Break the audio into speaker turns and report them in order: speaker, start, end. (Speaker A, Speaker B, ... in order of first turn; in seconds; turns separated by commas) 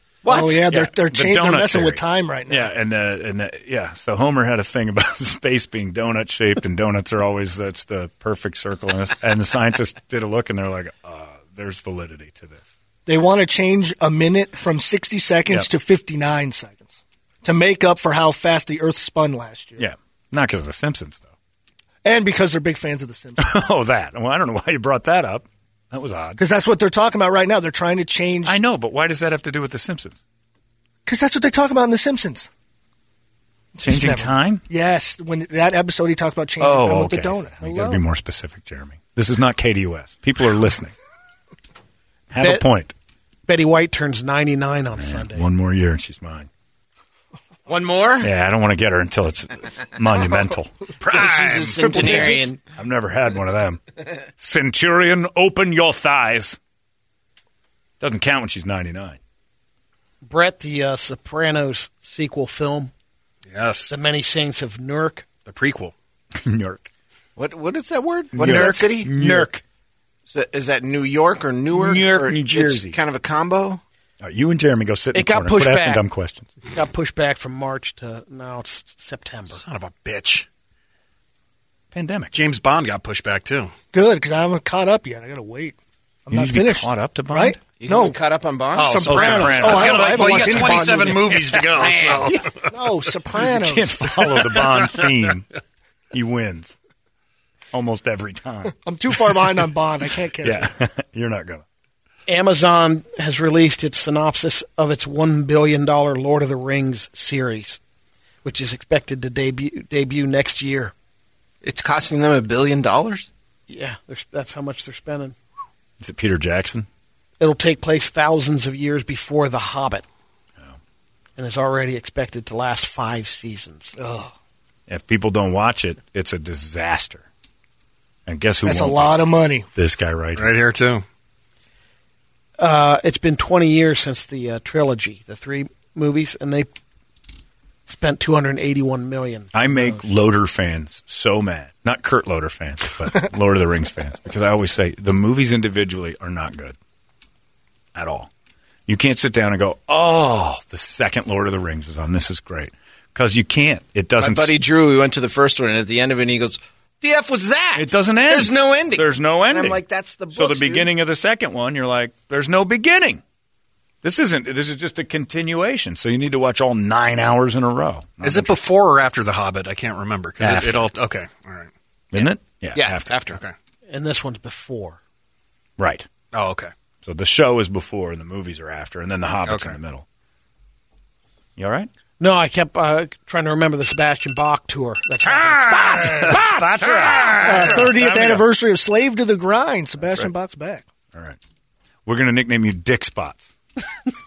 Speaker A: 0.2-0.7, Speaker B: 0.3-2.7, Speaker C: 0.7-12.7, Speaker B: 13.1-19.9, Speaker C: 19.8-21.3, Speaker B: 22.0-23.5, Speaker C: 23.4-26.4, Speaker B: 26.4-28.6, Speaker C: 28.4-30.2, Speaker B: 31.1-32.5, Speaker B: 33.8-38.0, Speaker C: 33.8-34.6, Speaker C: 36.6-40.9, Speaker C: 42.3-42.9, Speaker D: 42.4-42.6, Speaker D: 43.5-45.5, Speaker C: 45.0-46.5, Speaker A: 47.7-48.3, Speaker C: 48.2-50.7, Speaker E: 51.0-52.0, Speaker A: 51.0-52.6, Speaker D: 52.0-52.4, Speaker C: 52.7-53.8, Speaker C: 54.4-56.6, Speaker C: 58.0-59.2, Speaker D: 60.2-62.9, Speaker E: 63.5-64.0, Speaker D: 63.9-65.3, Speaker E: 65.5-65.9, Speaker C: 66.4-66.9, Speaker A: 67.4-69.5, Speaker C: 68.3-69.6, Speaker A: 70.3-73.8, Speaker C: 71.7-73.0, Speaker C: 74.2-76.5, Speaker D: 75.1-76.0, Speaker D: 76.7-79.6, Speaker E: 79.5-80.5, Speaker C: 81.9-82.4, Speaker E: 82.3-83.7, Speaker B: 83.9-88.2, Speaker C: 86.3-87.6, Speaker A: 87.8-90.3, Speaker E: 88.7-92.7, Speaker B: 88.9-91.3, Speaker C: 89.1-90.7, Speaker A: 90.9-92.4, Speaker B: 92.7-94.0, Speaker C: 93.5-95.5, Speaker C: 96.1-96.8, Speaker C: 97.7-98.8, Speaker B: 98.8-100.7, Speaker C: 100.4-101.6, Speaker D: 102.3-107.8, Speaker D: 108.4-110.9, Speaker A: 111.6-113.3, Speaker D: 113.7-115.4, Speaker C: 116.0-116.9, Speaker D: 117.4-120.1, Speaker D: 121.4-124.0, Speaker B: 124.0-124.3, Speaker C: 124.9-127.3, Speaker C: 128.3-129.2, Speaker B: 128.6-129.7, Speaker C: 129.8-130.5, Speaker E: 130.3-131.1, Speaker D: 132.6-136.7, Speaker D: 137.9-140.0, Speaker C: 139.5-146.8, Speaker C: 147.9-148.3, Speaker C: 148.9-154.6, Speaker A: 154.2-160.9, Speaker C: 157.7-159.8, Speaker C: 160.3-163.2, Speaker C: 164.0-168.6, Speaker E: 168.2-171.7, Speaker C: 170.4-170.9, Speaker C: 172.1-173.4, Speaker A: 172.1-173.3, Speaker E: 173.2-173.6, Speaker D: 173.9-175.0, Speaker C: 175.8-176.1, Speaker E: 176.3-176.7, Speaker C: 177.0-180.1, Speaker E: 179.4-179.8, Speaker C: 181.6-181.9, Speaker D: 182.2-186.4, Speaker C: 185.3-188.4, Speaker E: 186.9-187.5, Speaker B: 187.4-190.8, Speaker C: 190.0-190.3, Speaker C: 191.1-191.4, Speaker C: 192.1-193.5